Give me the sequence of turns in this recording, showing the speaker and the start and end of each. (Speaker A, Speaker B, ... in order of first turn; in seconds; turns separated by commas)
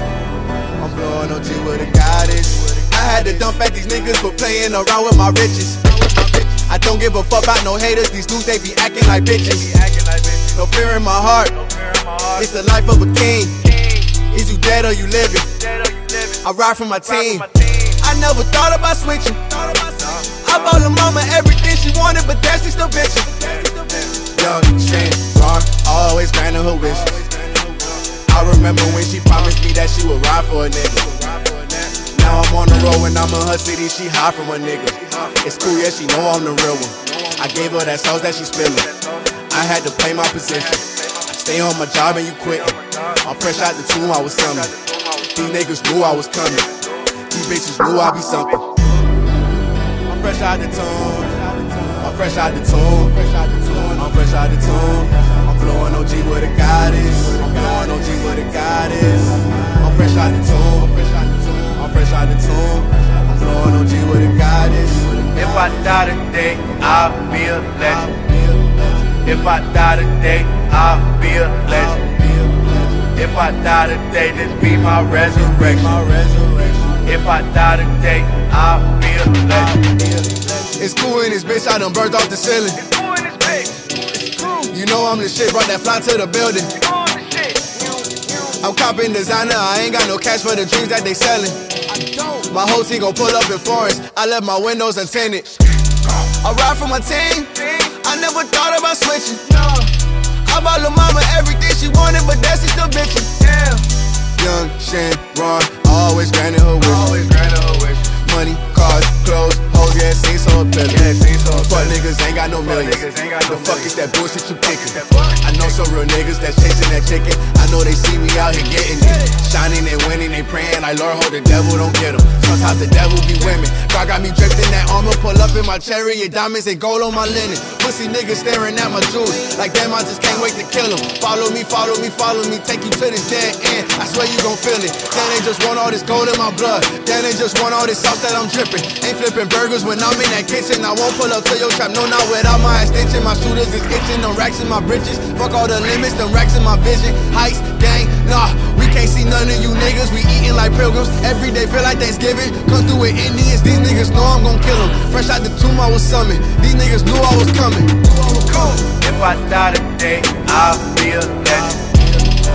Speaker A: 0.8-9.7, Speaker B: 2.6-3.5, Speaker B: 9.1-10.6, Speaker A: 10.4-11.6, Speaker B: 11.5-12.6, Speaker A: 12.3-15.6, Speaker B: 13.6-14.2, Speaker B: 15.6-18.5, Speaker A: 16.4-17.5, Speaker A: 18.0-38.9, Speaker B: 19.5-20.8, Speaker B: 35.3-36.0, Speaker B: 38.7-39.3, Speaker A: 39.5-44.7, Speaker B: 40.4-41.3, Speaker B: 42.2-47.1, Speaker A: 45.3-48.7, Speaker A: 50.1-66.0, Speaker B: 65.4-68.2, Speaker A: 67.7-69.1, Speaker B: 69.1-72.1, Speaker A: 71.7-73.2, Speaker B: 73.1-76.0, Speaker A: 75.2-77.0, Speaker B: 76.9-79.9, Speaker A: 79.4-82.8, Speaker B: 82.8-84.6, Speaker A: 84.4-86.8, Speaker B: 86.7-88.6, Speaker A: 88.5-99.9, Speaker A: 100.4-103.6, Speaker B: 103.5-103.8, Speaker A: 104.3-107.2, Speaker B: 106.8-108.0, Speaker A: 108.0-158.9, Speaker B: 110.9-112.0, Speaker B: 112.7-113.9, Speaker B: 114.7-115.8, Speaker B: 158.3-161.9